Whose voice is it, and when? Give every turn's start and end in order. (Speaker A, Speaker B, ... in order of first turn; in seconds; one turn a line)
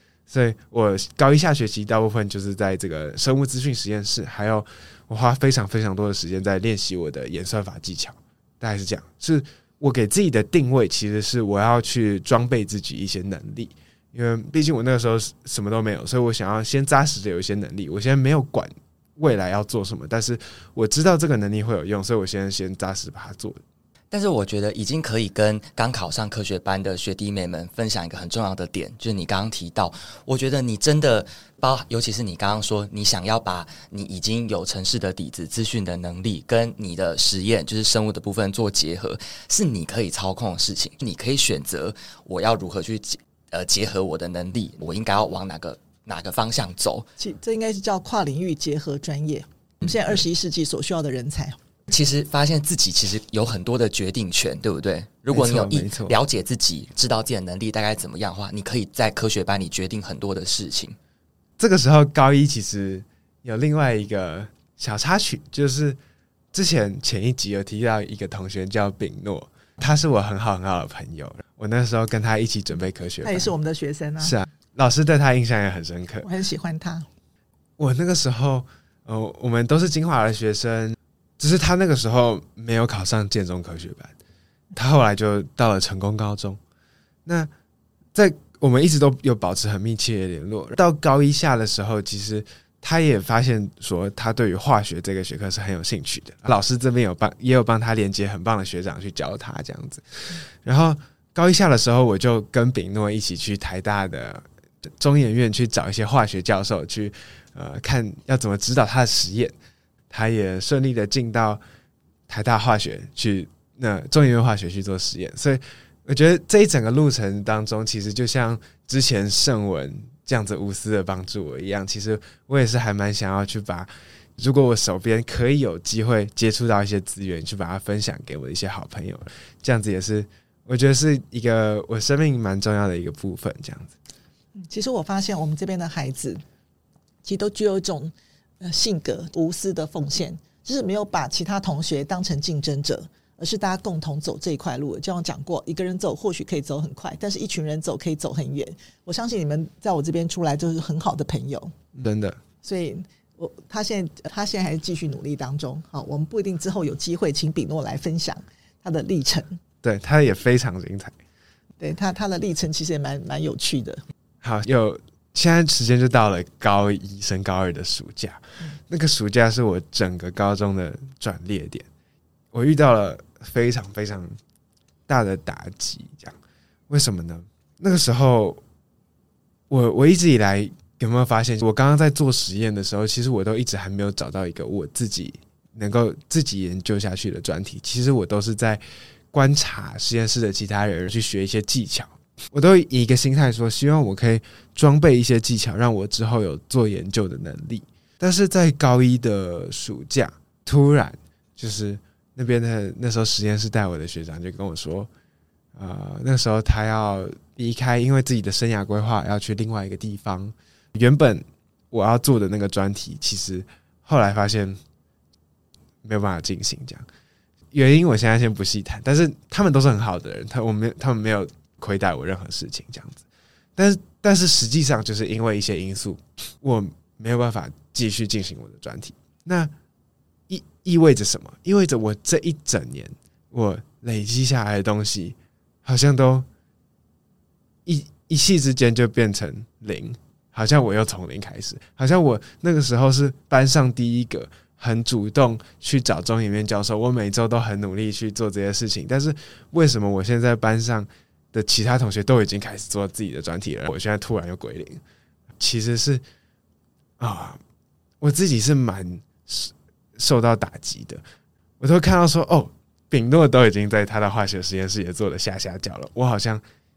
Speaker A: 0.3-23.6
Speaker B: 24.1-47.1
Speaker C: 47.2-51.6
Speaker B: 51.9-61.0
Speaker A: 55.3-56.2
Speaker A: 61.6-66.0
Speaker A: 66.5-73.5
Speaker C: 73.2-74.4
Speaker A: 74.2-76.3
Speaker C: 76.2-77.1
Speaker A: 77.8-84.1
Speaker A: 84.7-86.6
Speaker A: 87.3-87.5
Speaker A: 88.1-109.5
Speaker A: 110.1-111.6
Speaker A: 112.3-133.9
Speaker C: 134.6-136.4
Speaker C: 137.2-151.7
Speaker A: 151.9-152.4
Speaker C: 152.6-159.6
Speaker A: 159.8-161.2
Speaker C: 161.8-164.0
Speaker A: 164.4-171.9
Speaker A: 172.5-174.3
Speaker A: 175.1-176.4
Speaker A: 176.9-178.6
Speaker A: 179.7-205.1
Speaker A: 205.8-214.8
Speaker A: 216.0-217.1
Speaker A: 217.7-223.2
Speaker A: 223.8-229.7
Speaker A: 230.5-236.5
Speaker A: 237.8-255.0
Speaker A: 255.6-256.2
Speaker A: 257.2-257.6
Speaker A: 258.2-261.2
Speaker A: 261.8-266.6